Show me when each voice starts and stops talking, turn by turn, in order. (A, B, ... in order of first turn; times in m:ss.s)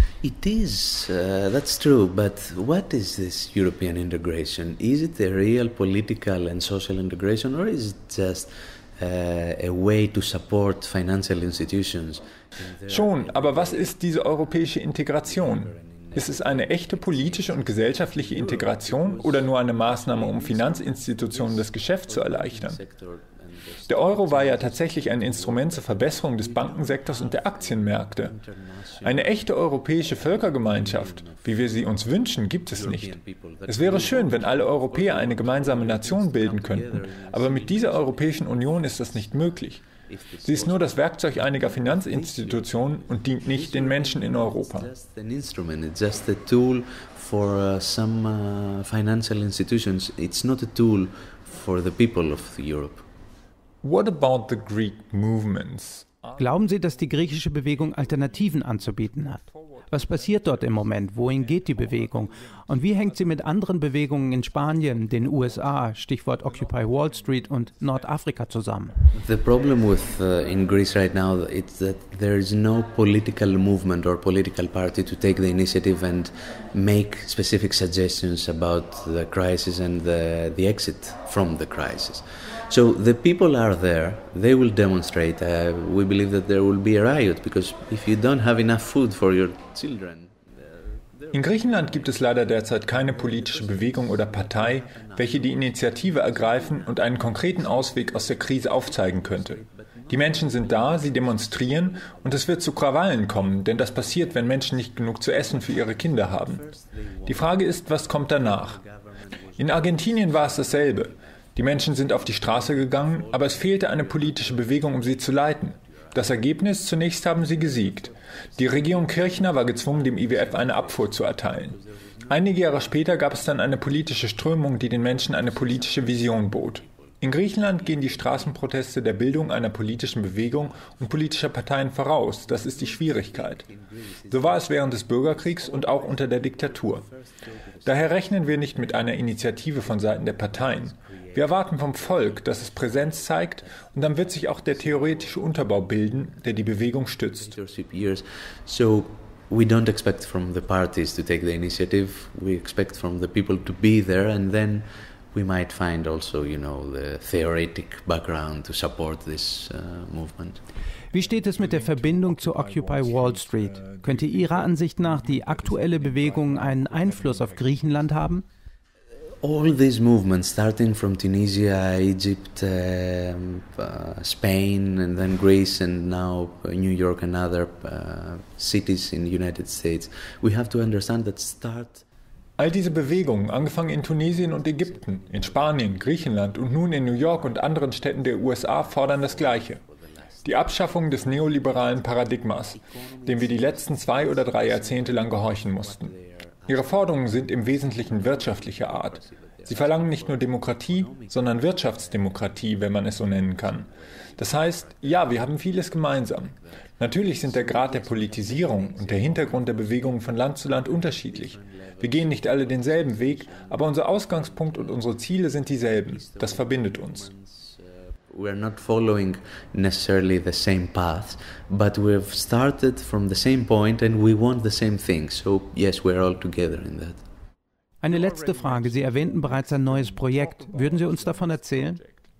0:00.2-0:14.5 A
0:12.9-0:22.8 B
0:15.2-0:29.3 A
0:23.9-0:28.3 B
0:29.0-0:33.2 B
0:30.0-0:32.1 A
0:32.6-0:39.3 A
0:33.7-0:39.9 B
0:40.1-0:53.0 A
0:40.4-0:44.9 B
0:53.8-1:09.0 B
0:56.4-1:08.9 C
1:09.1-1:42.7 A
1:31.3-1:46.6 B
1:43.7-1:56.6 A
1:47.3-1:48.8 B
1:49.6-2:01.8 B
1:57.3-2:04.0 A
2:02.3-2:13.6 B
2:04.8-2:08.7 A
2:10.3-2:11.2 A
2:12.5-2:40.6 A
2:14.3-2:17.1 B
2:17.8-2:27.5 B
2:41.1-2:48.4 C
2:41.2-2:48.2 B
2:49.4-3:02.0 A
3:02.6-3:09.8 B
3:03.1-3:22.8 A
3:10.4-3:16.1 B
3:16.7-3:37.3 B
3:23.6-3:47.2 A
3:48.0-3:52.0 C
3:48.1-3:52.3 B